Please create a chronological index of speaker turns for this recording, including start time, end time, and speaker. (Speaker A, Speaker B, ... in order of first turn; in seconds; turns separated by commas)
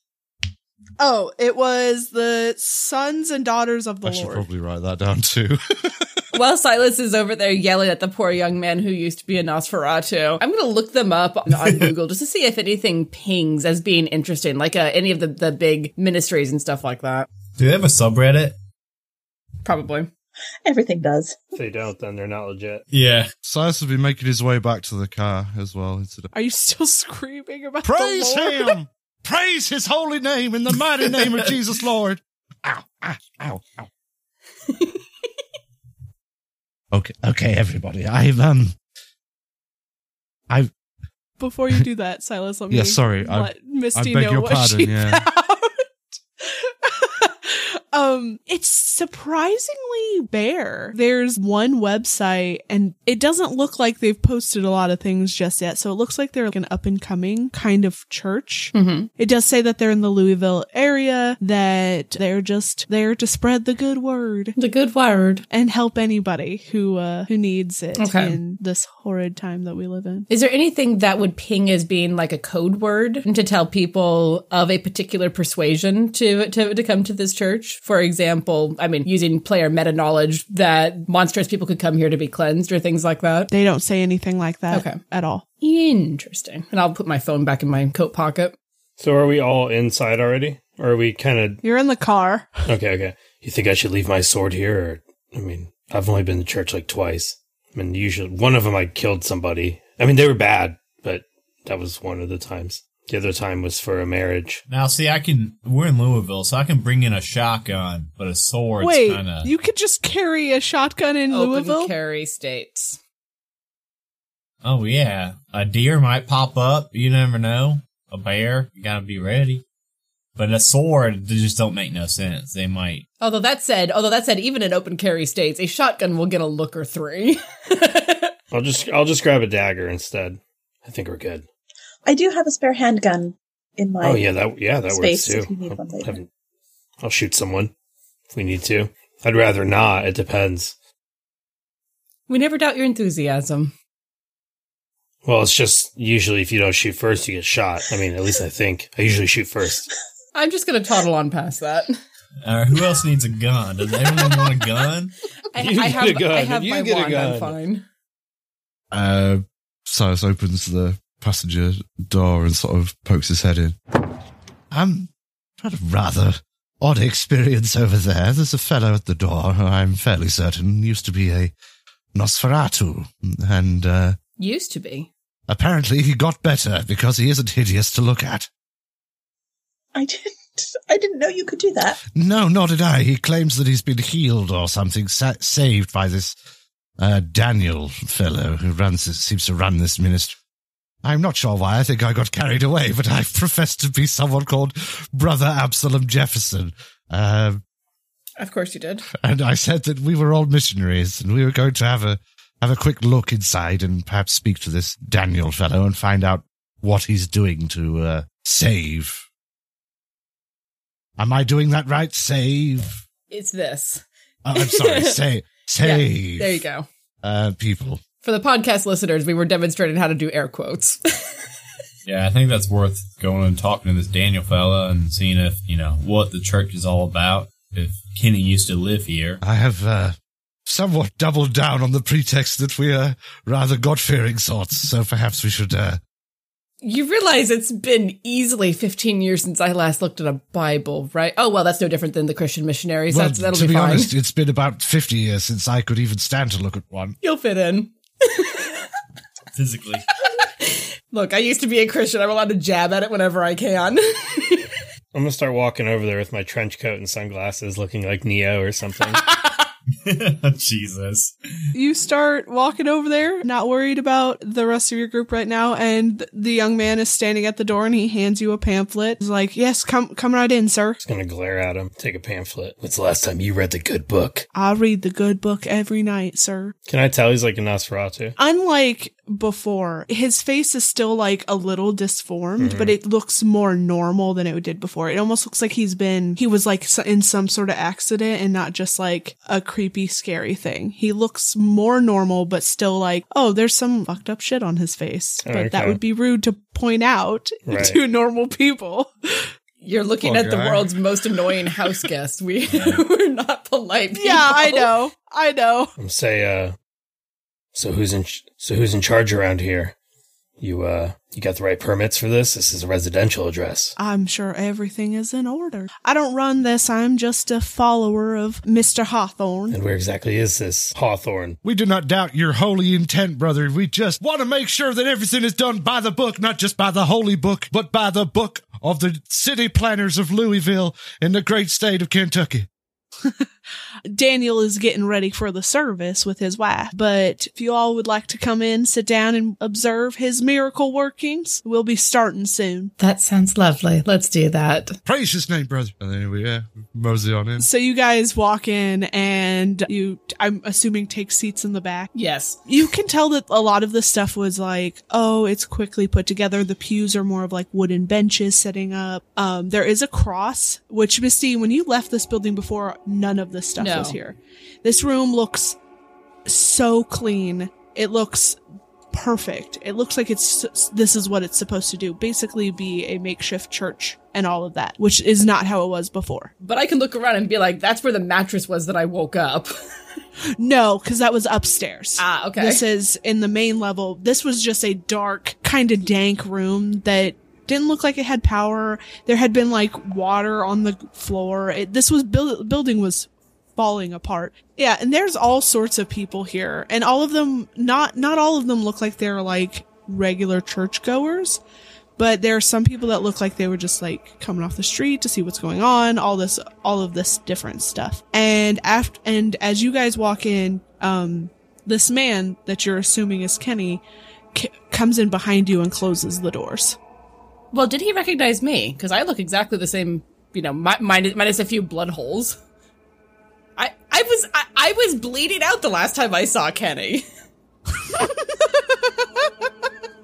Speaker A: 1.0-4.5, Speaker B: 4.0-6.1, Speaker C: 6.3-17.3, Speaker D: 11.6-11.9, Speaker D: 17.6-18.6, Speaker C: 19.6-20.1, Speaker E: 20.6-21.5, Speaker F: 21.6-22.8, Speaker D: 22.9-23.3, Speaker B: 23.4-26.3, Speaker A: 26.3-28.8, Speaker B: 27.8-33.9, Speaker B: 36.9-38.8, Speaker A: 41.4-45.9, Speaker B: 42.7-45.2, Speaker A: 46.4-64.5, Speaker C: 58.7-59.1, Speaker C: 64.6-65.4, Speaker A: 65.5-70.3, Speaker C: 68.0-68.4, Speaker C: 70.3-83.5, Speaker A: 83.5-85.5, Speaker C: 84.7-85.0, Speaker C: 85.6-88.6, Speaker F: 89.0-91.6, Speaker A: 91.6-92.7, Speaker F: 92.7-104.6, Speaker D: 104.7-109.5, Speaker A: 108.8-111.9, Speaker C: 111.3-113.0, Speaker D: 114.6-119.6, Speaker D: 120.4-123.1, Speaker C: 123.2-128.3, Speaker F: 128.5-131.4, Speaker E: 132.1-134.3, Speaker F: 134.0-136.3, Speaker E: 134.9-136.2, Speaker F: 137.0-137.7, Speaker F: 138.3-140.8, Speaker C: 142.3-143.8, Speaker F: 145.2-149.9, Speaker C: 150.3-152.0, Speaker D: 152.4-155.2, Speaker C: 155.5-157.9, Speaker F: 155.6-157.6, Speaker B: 158.9-163.8, Speaker B: 164.7-171.5, Speaker B: 172.2-174.2, Speaker C: 174.4-175.1, Speaker B: 175.5-178.5, Speaker E: 179.9-182.0, Speaker B: 182.2-186.4, Speaker B: 187.0-190.4, Speaker B: 191.0-197.6, Speaker C: 198.4-199.1, Speaker B: 199.1-209.2, Speaker B: 211.2-213.0, Speaker C: 213.3-214.0, Speaker B: 214.4-216.6, Speaker C: 214.6-215.2, Speaker C: 215.8-216.9, Speaker B: 217.2-218.0, Speaker C: 218.2-221.0, Speaker D: 222.1-229.4, Speaker B: 229.4-236.0, Speaker C: 236.8-244.2, Speaker B: 243.1-247.2, Speaker C: 247.2-248.8, Speaker D: 249.5-250.1, Speaker C: 250.3-254.7, Speaker F: 255.1-259.2, Speaker D: 260.0-261.4, Speaker A: 261.7-271.0, Speaker F: 271.0-274.5, Speaker A: 274.5-276.8, Speaker F: 276.9-278.4, Speaker A: 278.4-299.5, Speaker F: 282.6-282.9, Speaker F: 295.4-296.0, Speaker F: 297.7-298.0, Speaker C: 299.8-304.9, Speaker B: 300.2-300.9, Speaker D: 302.7-303.0, Speaker A: 304.1-305.9, Speaker F: 306.0-306.8, Speaker F: 307.7-309.9, Speaker F: 310.6-314.0, Speaker A: 314.0-319.8, Speaker F: 319.7-321.6, Speaker B: 321.6-332.7, Speaker A: 334.1-342.9, Speaker C: 343.0-345.0, Speaker B: 345.1-347.7, Speaker A: 347.6-352.1, Speaker C: 352.1-352.6, Speaker A: 352.7-365.8, Speaker C: 363.8-364.2, Speaker A: 366.4-368.6, Speaker A: 369.1-376.5, Speaker C: 376.6-379.7, Speaker A: 380.6-401.6, Speaker C: 382.2-382.8, Speaker A: 402.2-414.0, Speaker A: 414.5-417.0, Speaker C: 417.7-422.6, Speaker C: 423.8-427.3, Speaker A: 428.0-429.9